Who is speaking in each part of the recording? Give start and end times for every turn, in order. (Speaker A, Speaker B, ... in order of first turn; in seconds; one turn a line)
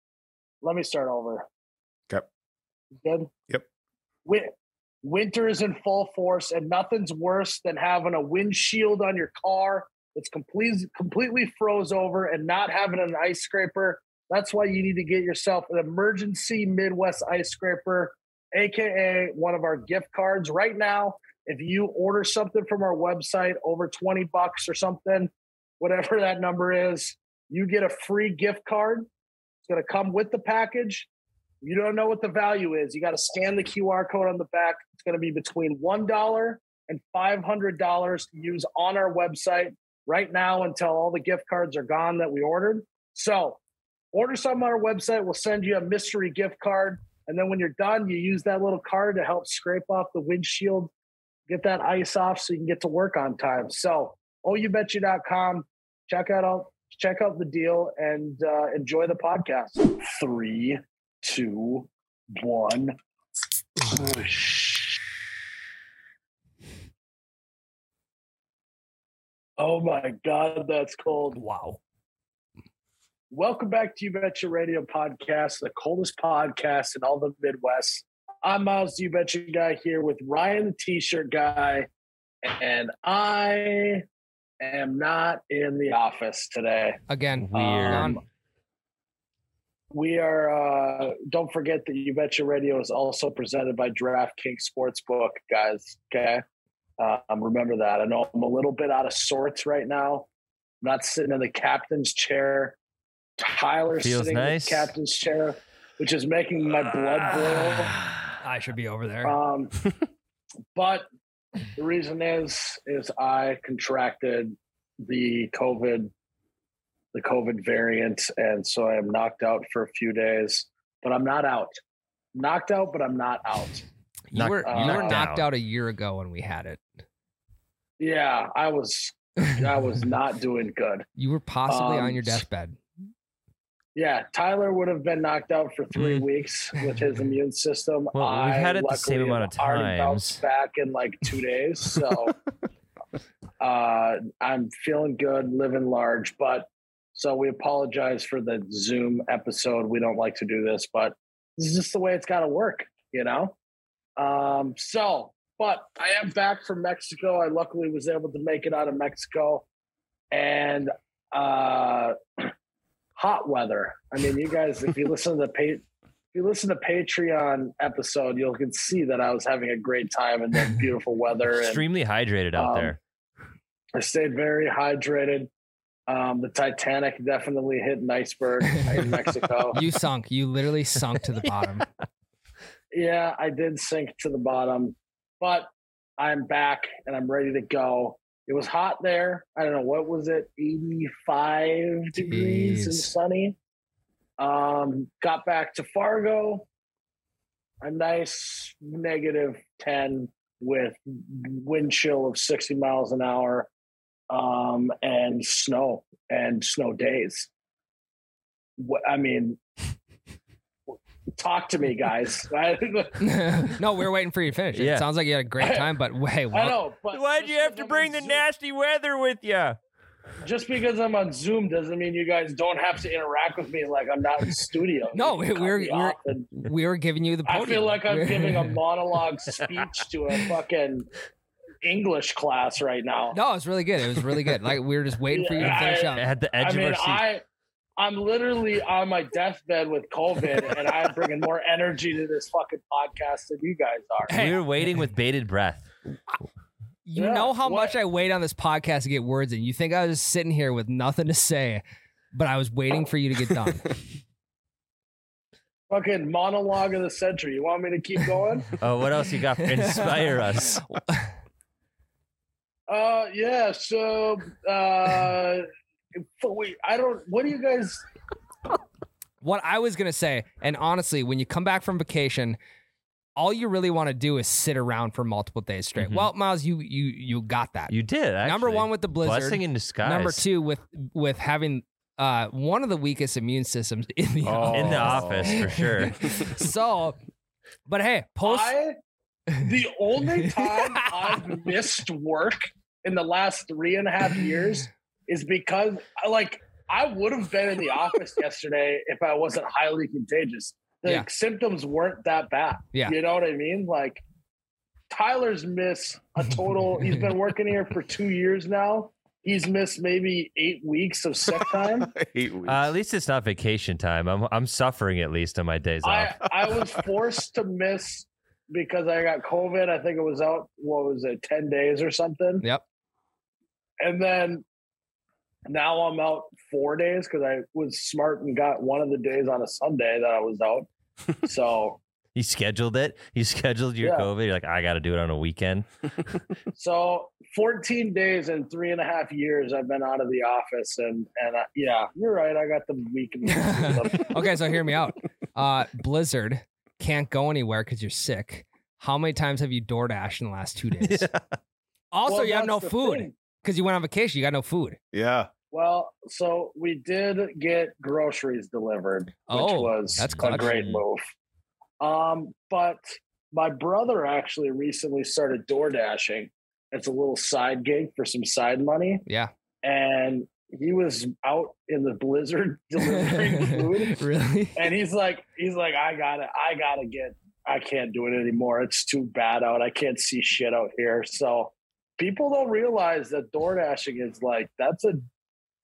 Speaker A: 0.6-1.5
Speaker A: 3.0-3.3
Speaker A: 4.3-4.5
Speaker A: 5.0-29.1
Speaker A: 29.6-31.1
Speaker A: 31.6-43.6
Speaker A: 44.1-50.9
Speaker A: 51.5-63.0
Speaker A: 63.9-65.0
Speaker A: 69.6-71.4
Speaker B: 71.3-71.8
Speaker A: 73.3-81.9
Speaker A: 82.4-84.0
Speaker A: 84.6-87.0
Speaker B: 87.1-88.2
Speaker C: 87.4-88.2
Speaker A: 87.5-88.2
Speaker A: 89.9-96.4
Speaker A: 97.0-100.3
Speaker A: 100.8-102.8
Speaker A: 103.4-108.0
Speaker C: 104.0-104.9
Speaker C: 107.1-108.3
Speaker B: 108.4-109.3
Speaker A: 109.2-109.8
Speaker A: 110.8-111.1
Speaker A: 111.8-116.1
Speaker A: 117.1-121.8
Speaker A: 122.3-123.8
Speaker B: 124.3-126.8
Speaker C: 124.3-125.5
Speaker A: 124.7-125.2
Speaker A: 128.0-131.1
Speaker B: 131.2-132.8
Speaker A: 131.7-132.4
Speaker A: 133.9-142.3
Speaker C: 136.0-136.2
Speaker C: 138.2-140.4
Speaker A: 143.6-153.6
Speaker A: 154.2-159.7
Speaker A: 160.3-162.5
Speaker A: 163.2-165.8
Speaker A: 166.3-171.8
Speaker C: 171.6-173.0
Speaker A: 172.6-172.9
Speaker A: 173.9-175.5
Speaker A: 176.1-179.8
Speaker B: 179.7-181.9
Speaker A: 182.9-193.6
Speaker B: 192.1-193.1
Speaker A: 194.4-196.7
Speaker A: 197.8-203.7
Speaker A: 204.3-207.5
Speaker A: 208.8-209.6
Speaker A: 211.3-213.7
Speaker B: 213.2-216.8
Speaker C: 214.7-215.1
Speaker A: 215.6-215.9
Speaker A: 216.5-218.4
Speaker C: 217.1-219.8
Speaker A: 220.4-226.7
Speaker B: 225.1-228.8
Speaker A: 227.5-231.1
Speaker A: 231.8-233.4
Speaker B: 233.3-236.3
Speaker A: 235.3-237.4
Speaker C: 235.6-237.2
Speaker A: 238.0-244.4
Speaker B: 244.3-244.6
Speaker C: 244.3-245.9
Speaker B: 247.1-253.9
Speaker A: 247.2-248.0
Speaker A: 255.9-258.7
Speaker C: 258.8-260.8
Speaker B: 259.6-260.3
Speaker B: 260.9-261.3
Speaker A: 262.9-268.0
Speaker B: 269.4-272.6
Speaker B: 273.4-287.2
Speaker C: 276.0-276.3
Speaker C: 277.9-280.4
Speaker D: 284.4-285.8
Speaker C: 284.7-286.3
Speaker B: 287.9-288.7
Speaker A: 288.4-289.0
Speaker A: 289.6-304.2
Speaker B: 290.6-291.4
Speaker A: 305.1-312.1
Speaker D: 311.5-312.9
Speaker C: 312.7-316.5
Speaker A: 316.0-322.6
Speaker A: 324.0-324.6
Speaker A: 325.7-330.9
Speaker A: 331.4-332.0
Speaker C: 332.4-335.9
Speaker A: 334.0-334.3
Speaker A: 336.8-344.5
Speaker B: 343.5-351.3
Speaker B: 352.1-355.0
Speaker A: 352.3-353.3
Speaker D: 355.1-355.5
Speaker A: 355.7-361.2
Speaker B: 359.5-360.8
Speaker C: 360.2-361.0
Speaker A: 362.0-369.2
Speaker B: 369.2-369.5
Speaker A: 369.8-374.2
Speaker B: 373.1-374.8
Speaker A: 374.8-385.2